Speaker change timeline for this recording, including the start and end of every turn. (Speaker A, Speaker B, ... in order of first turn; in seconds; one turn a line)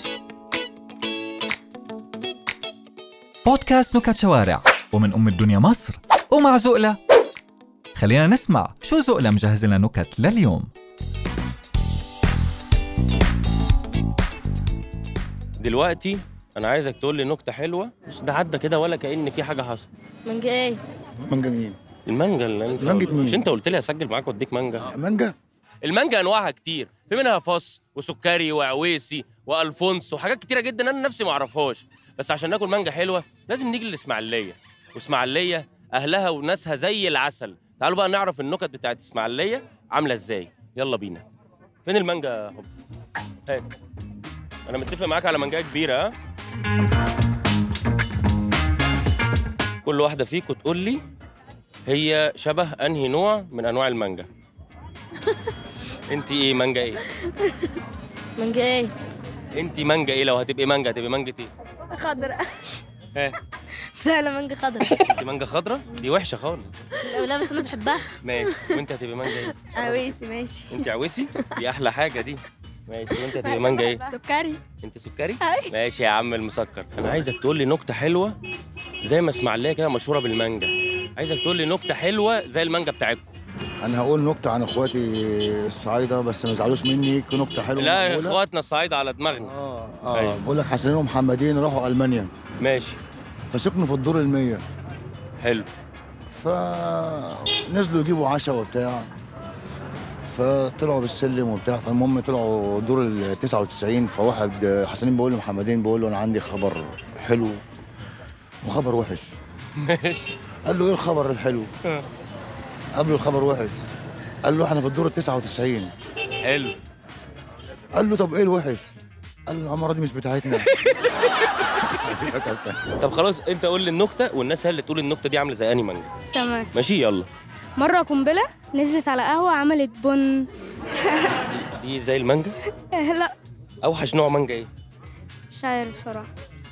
Speaker A: 3.4-7.0
Speaker A: 7.9-10.7
Speaker B: 15.6-19.9
Speaker C: 20.2-20.8
Speaker D: 21.2-21.8
Speaker B: 22.1-24.9
Speaker D: 22.8-23.4
Speaker D: 24.9-25.3
Speaker B: 25.8-41.2
Speaker B: 41.8-42.7
Speaker B: 44.7-46.1
Speaker B: 49.8-51.0
Speaker B: 51.9-54.3
Speaker B: 56.1-57.0
Speaker C: 58.4-58.9
Speaker B: 59.5-61.5
Speaker C: 62.0-62.4
Speaker B: 64.9-66.7
Speaker C: 67.1-68.0
Speaker B: 68.2-74.1
Speaker C: 69.7-70.5
Speaker E: 74.1-74.6
Speaker B: 74.8-78.4
Speaker B: 79.0-83.4
Speaker D: 83.8-88.4
Speaker B: 87.8-89.5
Speaker D: 89.4-92.3
Speaker B: 90.1-90.4
Speaker B: 92.6-93.0
Speaker D: 93.5-94.6
Speaker B: 95.4-95.7
Speaker D: 96.3-99.1
Speaker D: 100.2-107.6
Speaker D: 108.6-109.4
Speaker B: 109.8-110.3
Speaker D: 110.6-111.7
Speaker D: 113.0-113.9
Speaker D: 114.4-115.9
Speaker B: 116.4-116.8
Speaker D: 117.9-119.0
Speaker D: 119.5-120.7
Speaker D: 121.9-122.8
Speaker B: 123.0-126.1
Speaker E: 126.3-126.7
Speaker B: 126.7-127.3
Speaker E: 127.8-130.5
Speaker E: 131.1-131.3
Speaker B: 131.5-132.5
Speaker E: 132.9-133.3
Speaker B: 133.8-134.7
Speaker E: 135.5-136.3